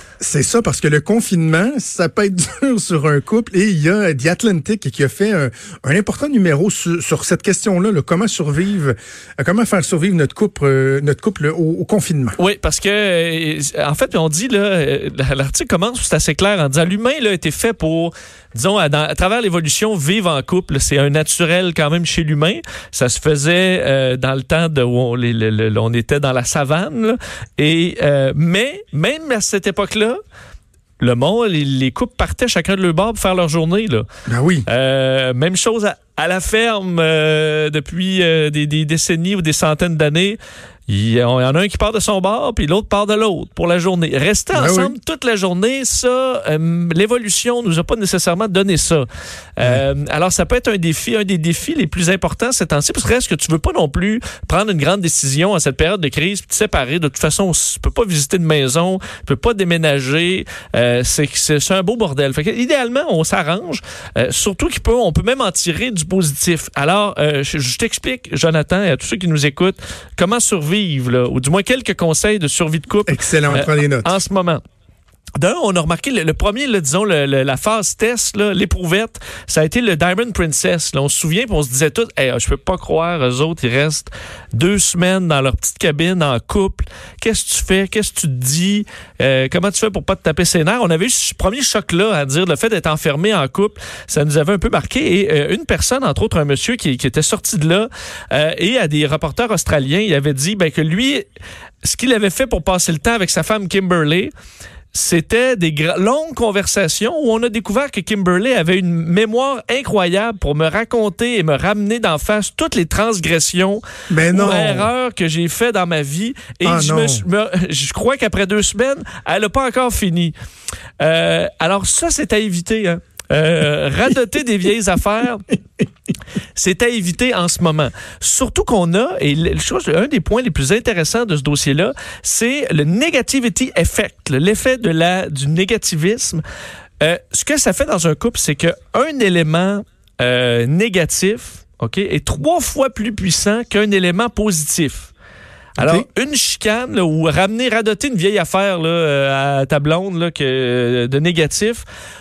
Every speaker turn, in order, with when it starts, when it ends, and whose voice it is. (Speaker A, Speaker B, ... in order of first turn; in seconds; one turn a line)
Speaker A: 0.2-12.4
Speaker B: 12.4-30.2
Speaker B: 31.0-34.1
Speaker A: 34.3-34.7
Speaker B: 34.7-74.6
Speaker A: 44.5-44.9
Speaker A: 73.1-74.2
Speaker B: 75.4-101.3
Speaker B: 101.8-104.3
Speaker B: 104.9-120.3
Speaker A: 114.1-114.9
Speaker A: 116.6-117.2
Speaker B: 121.0-125.5
Speaker B: 126.6-136.4
Speaker B: 137.0-145.1
Speaker B: 145.8-151.8
Speaker A: 145.8-146.1